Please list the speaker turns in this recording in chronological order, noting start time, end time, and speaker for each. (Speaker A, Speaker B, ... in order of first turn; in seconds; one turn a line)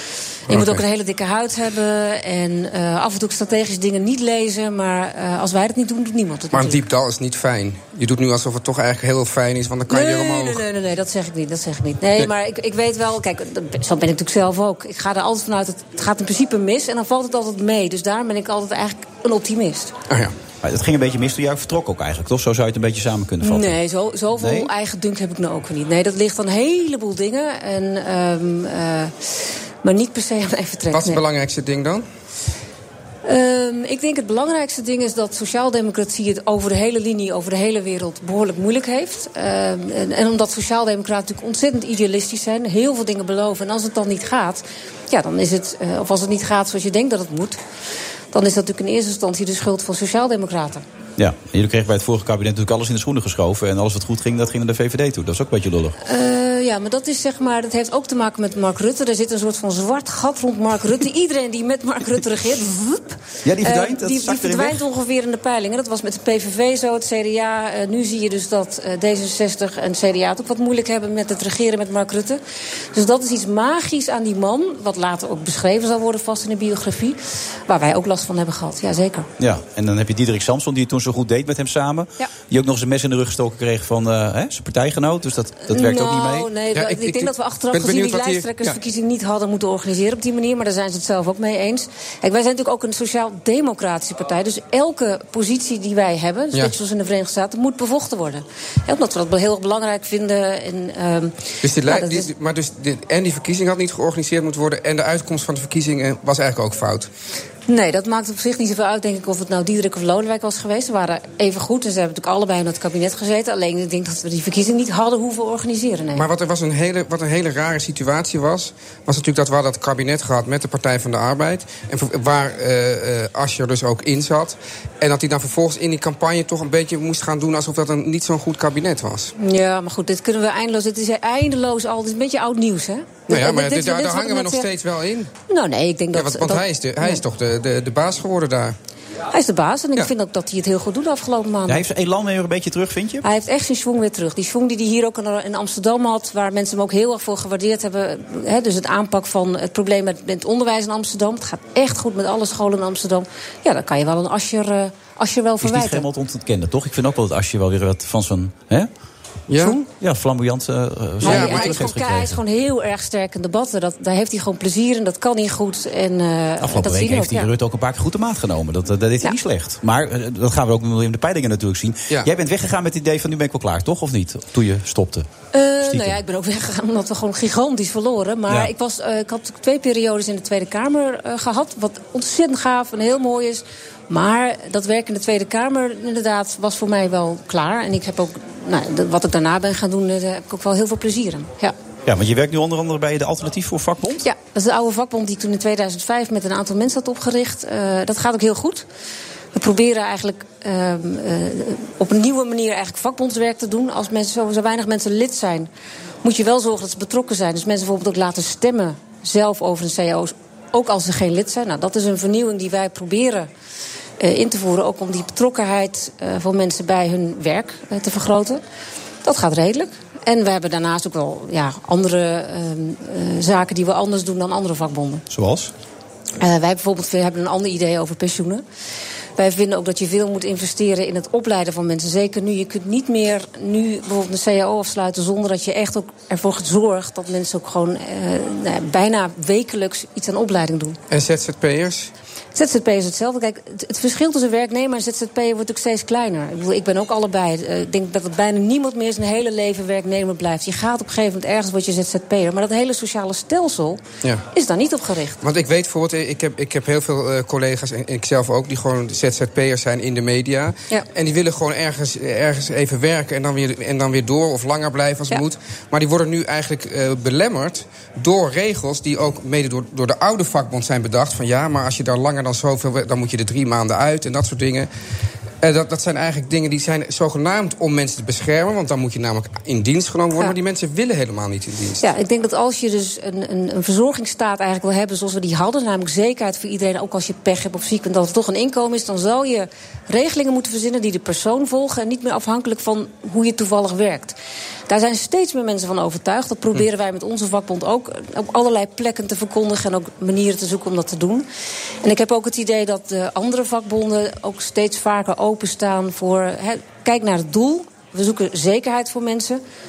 Speaker A: 0.5-6.8
Speaker B: 0.5-0.8
Speaker B: 6.5-10.6
Speaker A: 9.9-19.9
Speaker C: 20.6-23.8
Speaker A: 23.4-31.2
Speaker C: 24.3-24.7
Speaker B: 30.9-32.0
Speaker A: 33.2-47.6
Speaker A: 48.3-50.8
Speaker C: 51.2-56.0
Speaker A: 56.0-72.4
Speaker C: 63.4-64.8
Speaker A: 72.9-79.3
Speaker C: 79.4-86.5
Speaker A: 85.7-102.3
Speaker B: 86.7-88.8
Speaker B: 101.6-107.1
Speaker A: 107.7-116.2
Speaker B: 116.1-129.3
Speaker A: 129.4-134.7
Speaker B: 133.3-135.3
Speaker A: 135.5-137.2
Speaker B: 136.1-138.7
Speaker A: 139.3-141.8
Speaker C: 141.7-143.2
Speaker A: 143.2-156.1
Speaker C: 155.6-158.9
Speaker B: 159.5-159.8
Speaker A: 159.6-159.8
Speaker C: 160.0-162.4
Speaker A: 161.2-167.5
Speaker B: 161.2-161.9
Speaker C: 166.6-175.3
Speaker A: 175.5-191.7
Speaker C: 175.8-176.2
Speaker C: 192.1-194.2
Speaker A: 194.2-198.8
Speaker A: 199.5-205.7
Speaker A: 206.2-213.5
Speaker A: 214.2-218.6
Speaker A: 219.2-225.2
Speaker C: 225.3-225.7
Speaker A: 226.4-228.6
Speaker A: 229.4-241.0
Speaker B: 241.1-242.1
Speaker A: 242.5-254.0
Speaker A: 254.5-255.4
Speaker B: 255.4-274.9
Speaker B: 275.6-282.0
Speaker A: 282.0-294.4
Speaker A: 294.9-301.4
Speaker A: 302.0-309.6